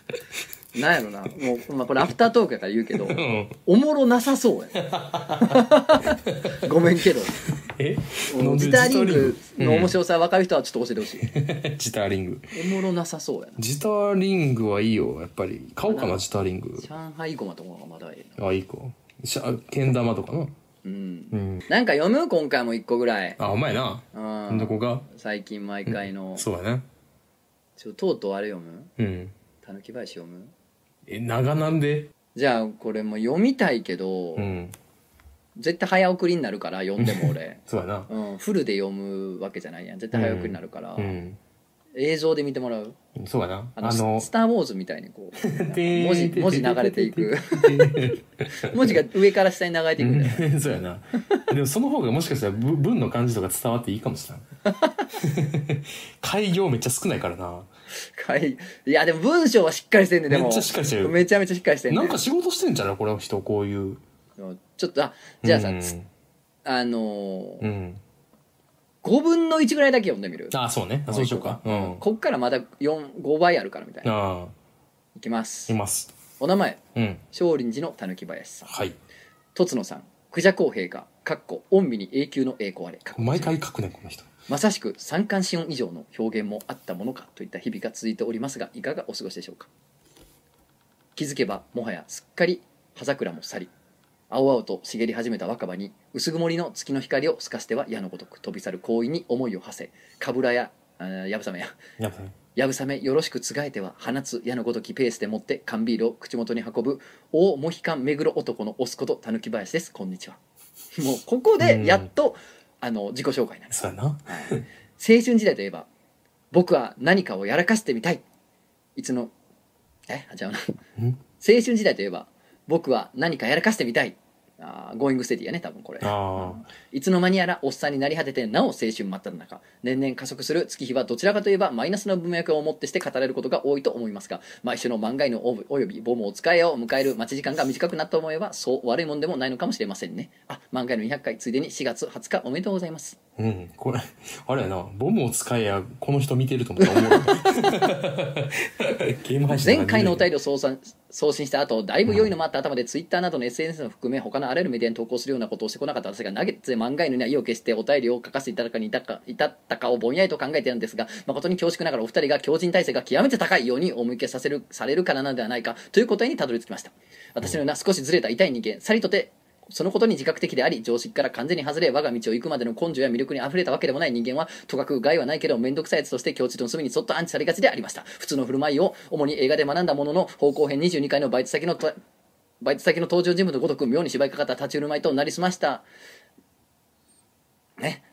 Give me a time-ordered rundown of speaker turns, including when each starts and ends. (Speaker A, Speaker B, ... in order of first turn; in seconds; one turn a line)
Speaker A: 0.7-4.8
Speaker B: 3.0-3.6
Speaker B: 4.8-5.6
Speaker A: 5.3-7.4
Speaker B: 6.2-6.6
Speaker B: 7.6-10.0
Speaker A: 8.3-11.2
Speaker B: 11.2-12.5
Speaker A: 12.5-13.6
Speaker B: 13.6-16.9
Speaker A: 15.8-16.2
Speaker A: 16.8-18.4
Speaker B: 18.4-20.5
Speaker A: 20.8-23.4
Speaker B: 21.3-21.6
Speaker B: 23.4-25.1
Speaker A: 24.1-26.4
Speaker B: 25.9-26.8
Speaker A: 27.8-28.9
Speaker B: 29.0-29.3
Speaker A: 29.6-30.5
Speaker B: 31.1-32.1
Speaker A: 32.3-34.5
Speaker B: 34.4-34.7
Speaker A: 35.5-41.2
Speaker B: 37.0-38.1
Speaker B: 40.1-41.4
Speaker A: 42.0-43.0
Speaker B: 43.1-44.3
Speaker A: 43.8-50.5
Speaker B: 45.4-49.0
Speaker B: 50.0-54.4
Speaker A: 54.7-55.0
Speaker B: 55.1-57.7
Speaker A: 58.2-62.2
Speaker B: 60.3-61.2
Speaker B: 61.9-64.0
Speaker A: 64.4-65.9
Speaker B: 65.4-66.1
Speaker A: 66.6-67.7
Speaker B: 67.6-68.0
Speaker A: 69.0-70.5
Speaker B: 70.5-72.0
Speaker A: 71.1-74.1
Speaker B: 74.0-74.5
Speaker A: 75.2-75.8
Speaker B: 75.7-76.1
Speaker A: 76.4-76.8
Speaker B: 77.0-77.2
Speaker A: 77.3-78.8
Speaker B: 78.7-79.0
Speaker A: 79.5-83.6
Speaker B: 83.2-84.3
Speaker A: 84.5-89.7
Speaker A: 91.2-93.7
Speaker A: 94.3-101.8
Speaker B: 102.0-102.3
Speaker A: 102.5-110.4
Speaker A: 111.0-115.9
Speaker B: 111.6-112.1
Speaker B: 113.7-114.6
Speaker A: 116.5-118.2
Speaker A: 119.0-119.3
Speaker A: 120.1-120.8
Speaker A: 121.4-143.2
Speaker B: 126.0-126.7
Speaker B: 143.4-150.3
Speaker A: 146.8-147.9
Speaker A: 149.5-181.9
Speaker B: 152.1-152.3
Speaker A: 182.6-185.8
Speaker A: 187.8-188.0